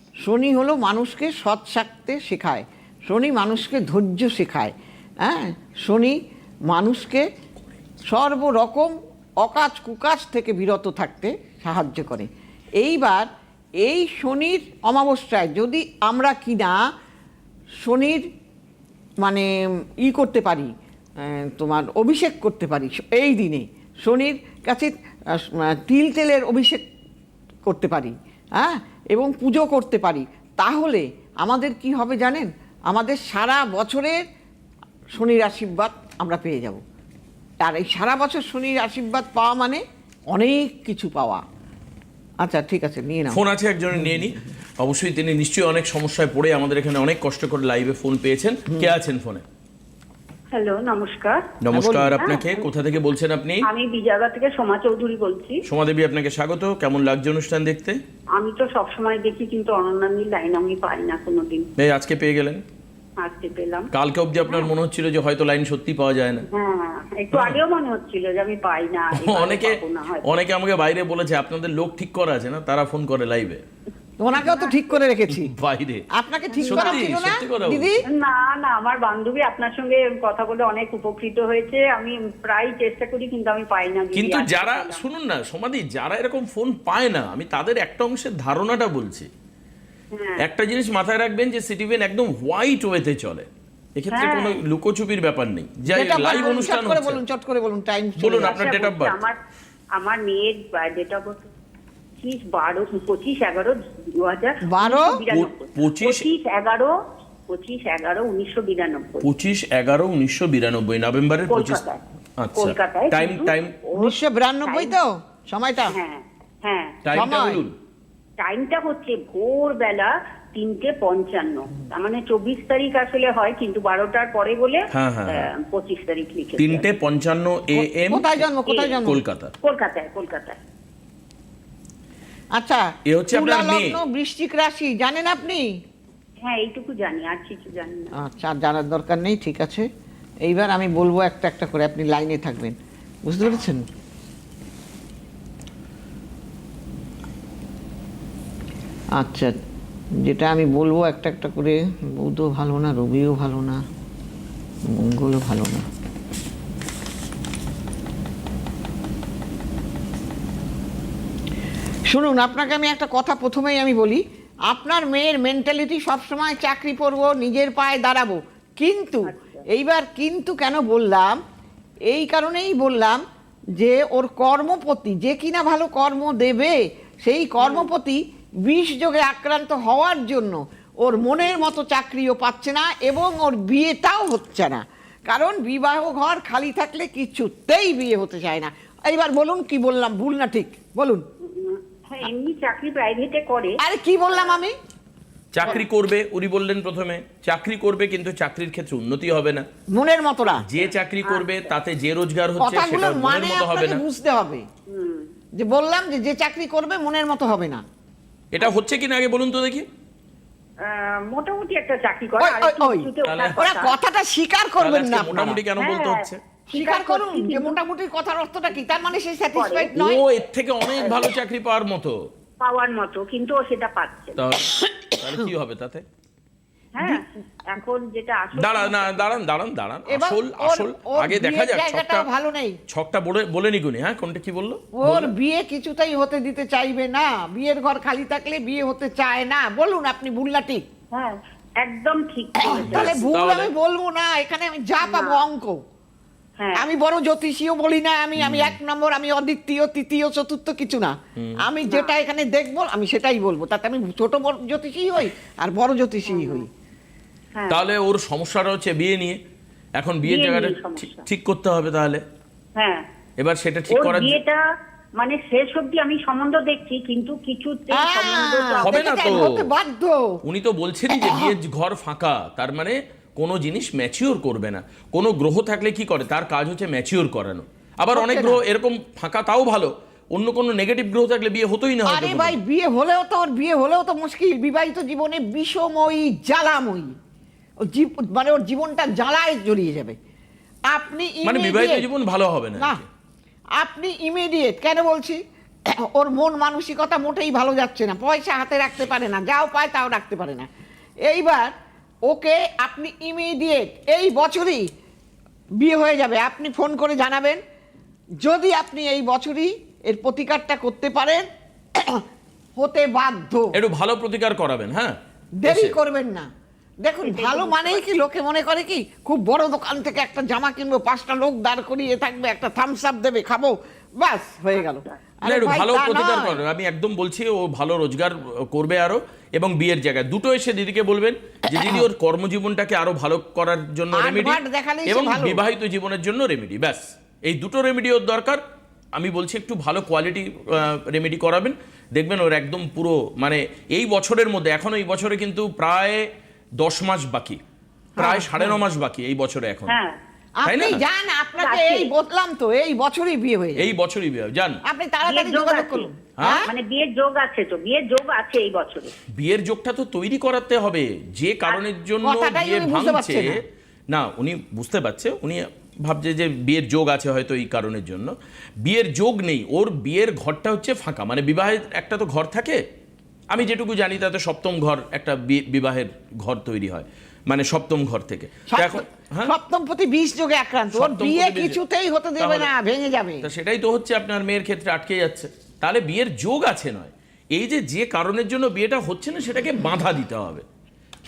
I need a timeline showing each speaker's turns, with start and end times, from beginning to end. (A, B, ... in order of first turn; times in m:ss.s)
0:00.2-0:06.2 A
0:06.7-0:07.3 A
0:08.1-0:13.3 A
0:13.8-0:16.8 A
0:17.8-0:18.3 A
0:19.2-0:19.5 A
0:20.0-0:26.8 A
0:27.7-0:34.2 A
0:35.2-0:36.8 A
0:37.6-0:41.4 A
0:42.4-0:43.4 A
0:43.3-0:49.4 B
0:50.5-0:51.5 C
0:51.6-0:53.7 B
0:51.7-0:52.4 A
0:53.7-0:55.6 C
0:55.6-0:58.0 B
0:58.4-1:01.7 C
1:01.8-1:02.6 B
1:03.2-1:03.9 C
1:03.9-1:06.5 B
1:06.5-1:10.3 C
1:07.3-1:07.6 B
1:09.1-1:13.6 B
1:14.2-1:15.5 A
1:14.4-1:14.8 C
1:15.3-1:16.1 B
1:16.1-1:18.0 A
1:16.5-1:17.1 C
1:16.7-1:18.0 B
1:18.1-1:25.0 C
1:24.1-1:29.3 B
1:30.1-1:30.5 C
1:30.4-1:37.2 B
1:34.1-1:34.6 C
1:35.9-1:38.6 A
1:36.3-1:36.6 C
1:38.2-1:39.2 B
1:38.4-1:39.4 C
1:40.0-1:41.4 C
1:42.2-1:46.9 C
1:44.7-1:45.2 A
1:45.3-1:46.3 B
1:47.5-1:49.3 C
1:49.2-1:51.8 B
1:51.5-1:52.0 C
1:52.4-1:53.7 B
1:52.6-1:55.0 C
1:54.0-1:56.0 A
1:55.9-1:57.3 C
1:57.0-1:57.8 B
1:57.1-1:57.6 A
1:58.4-2:06.9 C
2:04.9-2:05.5 B
2:06.6-2:08.5 B
2:07.8-2:09.2 A
2:08.7-2:09.0 C
2:09.0-2:09.5 B
2:09.6-2:10.6 C
2:12.6-2:15.7 A
2:13.1-2:14.0 B
2:16.4-2:18.1 C
2:18.2-2:19.9 A
2:20.4-2:23.8 A
2:29.2-2:29.5 A
2:30.2-2:33.8 A
2:34.9-2:35.9 A
2:42.1-2:51.4 A
2:49.2-2:49.6 C
2:52.1-2:53.2 A
2:53.8-3:11.2 A
2:57.6-2:57.9 C
3:11.4-3:13.8 C
3:13.8-3:14.8 A
3:15.5-3:19.7 B
3:19.9-3:20.6 A
3:20.6-3:24.0 B
3:20.8-3:21.7 C
3:22.6-3:24.7 A
3:24.9-3:25.3 C
3:25.6-3:27.8 A
3:28.5-3:29.8 B
3:30.8-3:34.0 C
3:32.4-3:35.6 A
3:33.2-3:33.6 B
3:34.8-3:36.4 B
3:35.8-3:37.8 C
3:36.7-3:40.2 A
3:39.5-3:40.0 C
3:40.0-3:42.2 B
3:41.0-3:41.3 C
3:42.6-3:44.4 C
3:44.4-3:46.0 B
3:47.0-3:49.3 C
3:48.6-3:52.3 B
3:50.1-3:52.8 A
3:52.9-3:55.3 B
3:55.0-4:00.8 A
4:01.1-4:03.3 C
4:02.6-4:05.8 A
4:02.8-4:03.7 B
4:05.0-4:05.4 C
4:06.6-4:06.9 C
4:06.8-4:16.7 A
4:08.4-4:08.8 B
4:11.4-4:11.6 B
4:16.3-4:16.6 C
4:17.6-4:17.8 C
4:17.7-4:19.4 B
4:20.0-4:22.2 B
4:20.2-4:21.2 C
4:22.8-4:23.0 C
4:23.4-4:24.4 B
4:23.9-4:24.6 C
4:25.2-4:29.4 C
4:27.9-4:30.4 A
4:28.8-4:29.6 B
4:30.4-4:42.6 B
4:31.1-4:31.6 A
4:38.1-4:38.6 A
4:42.1-4:47.1 A
4:47.8-4:50.2 A
4:50.9-4:52.1 A
4:51.4-4:53.1 B
4:53.8-5:00.7 A
5:01.2-5:01.7 A
5:02.3-5:04.9 A
5:05.8-5:07.6 A
5:08.4-5:12.2 A
5:12.8-5:13.7 A
5:13.7-5:16.0 B
5:15.6-5:16.5 A
5:17.0-5:26.6 A
5:17.2-5:18.0 C
5:25.4-5:38.6 B
5:31.7-5:32.0 A
5:34.2-5:35.6 A
5:39.2-5:46.2 B
5:46.8-5:47.6 B
5:48.2-5:48.8 A
5:48.2-5:50.0 B
5:49.9-5:50.2 C
5:50.6-5:53.9 A
5:50.7-5:51.0 B
5:51.6-5:52.1 C
5:53.8-5:54.8 B
5:54.9-5:56.7 A
5:55.3-5:59.1 C
5:56.4-5:56.7 B
5:59.4-6:08.3 B
6:02.2-6:03.6 A
6:08.8-6:12.8 B
6:13.5-6:19.5 B
6:18.7-6:23.5 A
6:20.9-6:21.8 B
6:22.4-6:22.7 B
6:23.4-6:30.6 B